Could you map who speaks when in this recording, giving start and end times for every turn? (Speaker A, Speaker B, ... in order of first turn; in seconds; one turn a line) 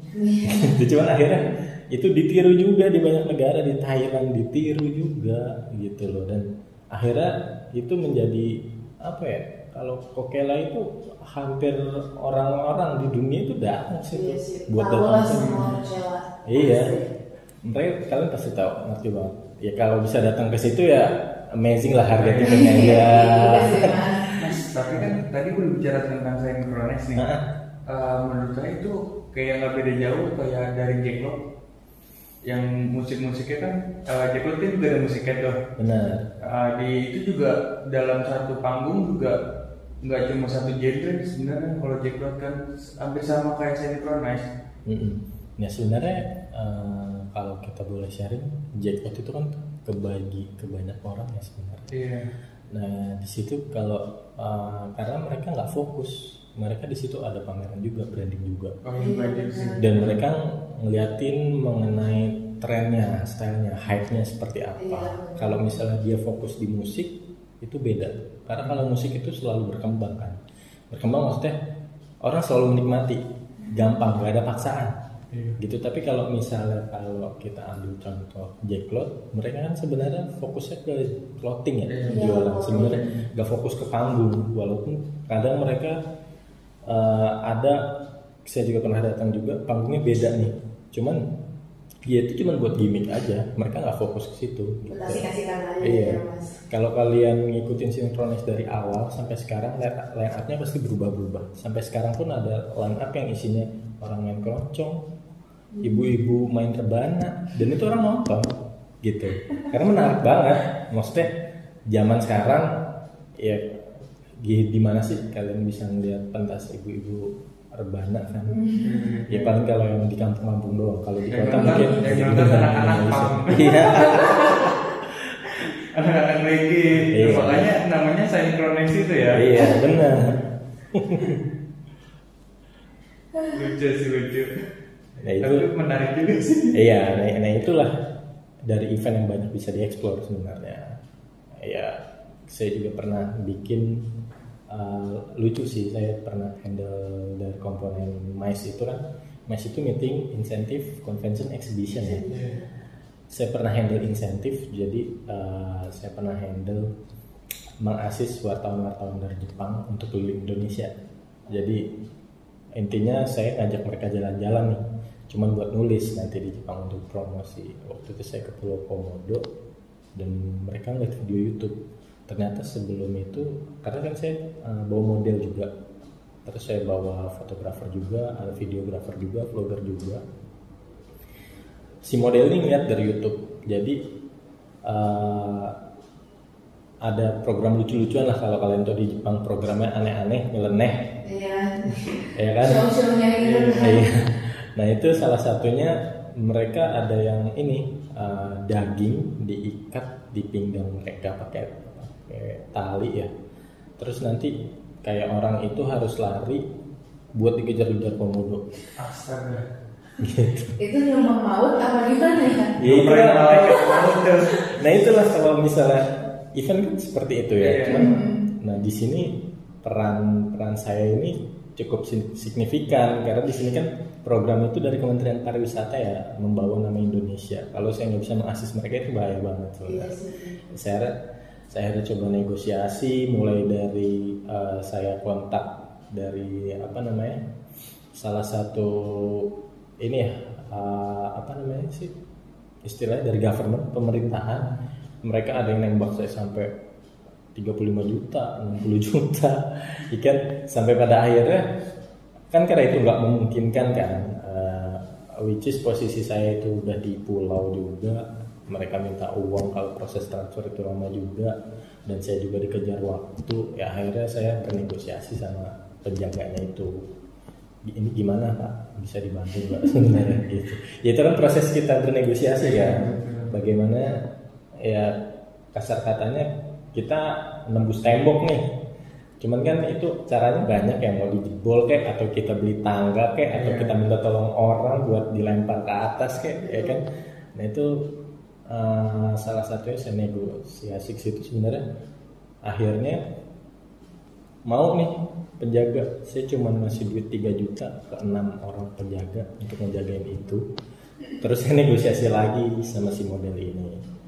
Speaker A: 0.1-0.7
Speaker B: 0.4-15.6
Speaker A: 14.1-17.1
Speaker C: 15.3-15.7
Speaker B: 16.5-17.0
Speaker B: 17.6-25.1
Speaker C: 22.2-22.6
Speaker A: 22.4-24.3
Speaker C: 24.4-27.2
Speaker B: 27.2-27.4
Speaker C: 27.9-31.4
Speaker C: 32.5-35.6
Speaker B: 35.8-36.3
Speaker C: 36.4-39.4
Speaker C: 40.0-44.5
Speaker B: 44.9-51.9
Speaker C: 51.9-52.3
Speaker B: 52.7-58.8
Speaker C: 58.9-60.2
Speaker A: 59.0-59.8
Speaker B: 59.8-70.4
Speaker A: 64.8-65.6
Speaker B: 70.9-71.6
Speaker B: 72.2-75.0
Speaker C: 75.3-75.6
Speaker B: 75.6-86.0
Speaker C: 81.9-83.2
Speaker A: 82.1-83.0
Speaker B: 86.9-87.8
Speaker B: 88.5-91.2
Speaker B: 92.0-95.3
Speaker A: 94.9-96.6
Speaker B: 95.8-105.0
Speaker A: 105.8-106.1
Speaker B: 105.8-108.5
Speaker B: 109.0-111.3
Speaker B: 111.9-112.8
Speaker B: 113.4-113.8
Speaker B: 114.4-118.7
Speaker A: 118.5-119.0
Speaker C: 118.8-119.5
Speaker B: 119.3-125.5
Speaker C: 121.3-124.2
Speaker A: 121.5-122.0
Speaker A: 123.9-124.6
Speaker C: 125.8-129.4
Speaker B: 127.1-127.7
Speaker B: 129.3-130.4
Speaker B: 130.9-131.4
Speaker C: 133.5-134.5
Speaker B: 135.2-135.7
Speaker C: 135.4-136.8
Speaker B: 136.7-137.9
Speaker B: 138.7-141.0
Speaker B: 141.6-144.1
Speaker B: 144.7-152.5
Speaker A: 152.0-152.7
Speaker B: 153.3-156.9
Speaker B: 157.8-160.9
Speaker B: 161.5-161.8
Speaker B: 162.8-169.5
Speaker B: 170.2-171.8
Speaker B: 172.3-175.7
Speaker B: 176.4-180.2
Speaker B: 182.0-184.0
Speaker B: 184.8-185.7
Speaker B: 187.0-191.1
Speaker A: 191.2-194.1
Speaker B: 192.3-192.9
Speaker C: 193.4-193.9
Speaker B: 193.8-203.3
Speaker B: 204.0-206.7
Speaker B: 207.3-208.7
Speaker C: 209.0-209.7
Speaker B: 210.2-210.8
Speaker A: 210.8-212.8
Speaker B: 212.8-230.2
Speaker C: 212.8-214.5
Speaker C: 217.6-218.2
Speaker A: 217.9-218.4
Speaker A: 229.9-230.6
Speaker B: 230.7-231.2
Speaker B: 231.7-237.4
Speaker B: 238.1-239.5
Speaker B: 240.0-242.1
Speaker B: 242.8-246.7
Speaker B: 247.6-251.7
Speaker B: 252.5-261.6
Speaker B: 262.1-267.1
Speaker B: 267.9-274.2
Speaker C: 272.6-273.5
Speaker B: 274.8-275.2
Speaker B: 275.7-278.7
Speaker B: 279.4-288.1
Speaker C: 283.5-283.9
Speaker A: 286.6-287.0
Speaker B: 288.7-291.9
Speaker B: 292.7-293.2
Speaker B: 294.7-300.7
Speaker B: 301.4-304.0